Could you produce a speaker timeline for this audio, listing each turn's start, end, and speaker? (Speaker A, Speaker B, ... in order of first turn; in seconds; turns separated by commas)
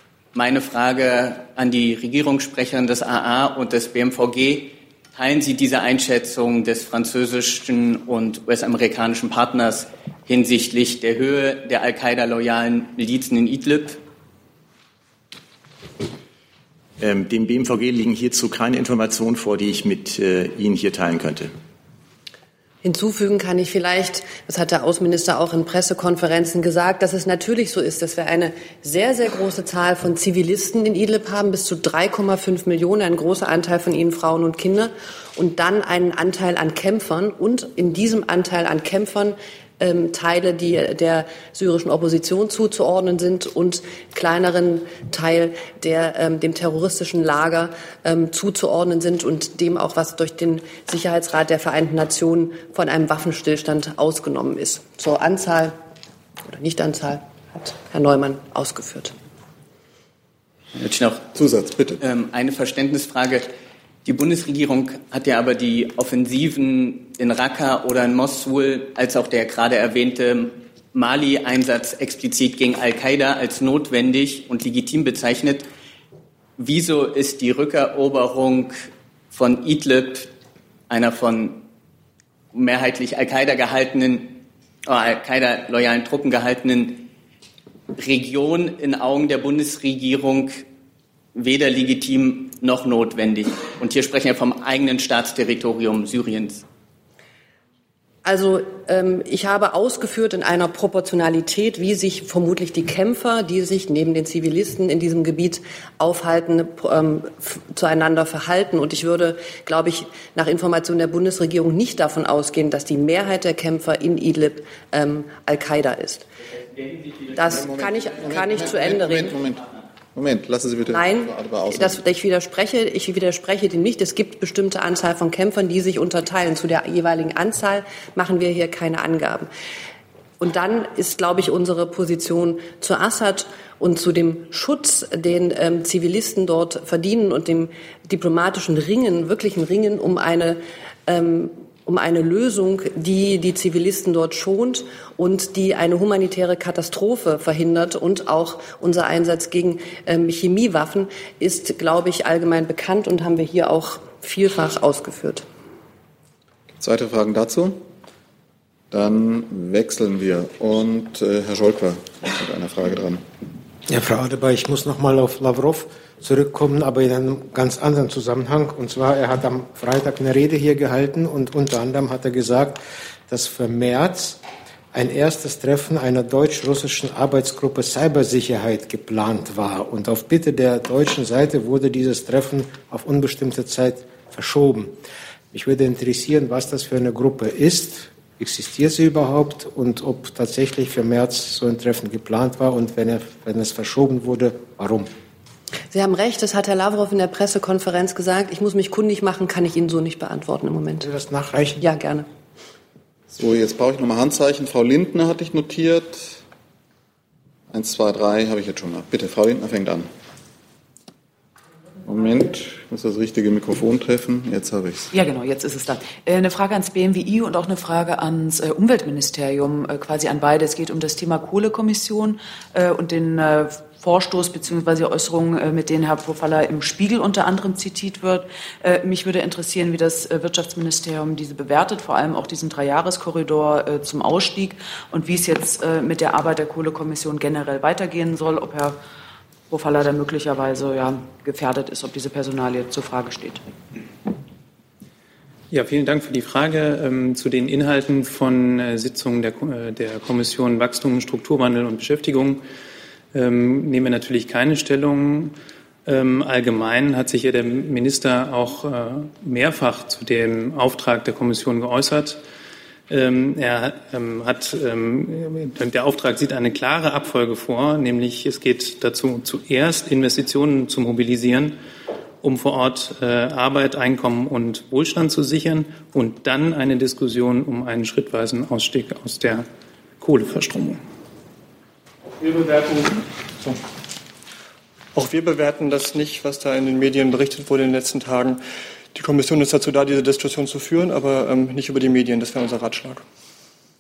Speaker A: 0.3-14.0, Speaker B: 17.0-21.5, Speaker C: 22.8-55.8, Speaker C: 56.5-59.1, Speaker A: 60.8-61.2, Speaker D: 61.3-62.0, Speaker A: 62.0-63.5, Speaker A: 64.0-75.7, Speaker A: 76.6-80.3, Speaker A: 80.9-81.6, Speaker A: 82.5-87.1, Speaker A: 88.0-90.7, Speaker A: 91.3-96.6, Speaker C: 98.2-116.3, Speaker C: 117.3-119.3, Speaker D: 117.5-119.6, Speaker D: 120.2-122.0, Speaker C: 120.9-129.5, Speaker C: 130.4-155.4, Speaker D: 156.8-157.8, Speaker D: 158.9-163.2, Speaker E: 163.9-174.4, Speaker E: 174.9-184.9, Speaker E: 185.5-195.1, Speaker C: 195.9-201.1, Speaker E: 201.0-201.8, Speaker C: 201.8-202.3, Speaker D: 203.3-206.4, Speaker D: 207.7-210.1, Speaker D: 212.1-215.1, Speaker F: 215.1-239.0, Speaker F: 239.7-243.6, Speaker G: 245.7-252.6, Speaker G: 253.3-255.6, Speaker G: 256.1-262.4, Speaker G: 263.1-271.8, Speaker G: 272.4-279.7, Speaker G: 280.2-281.0, Speaker H: 285.1-288.6, Speaker H: 289.1-293.2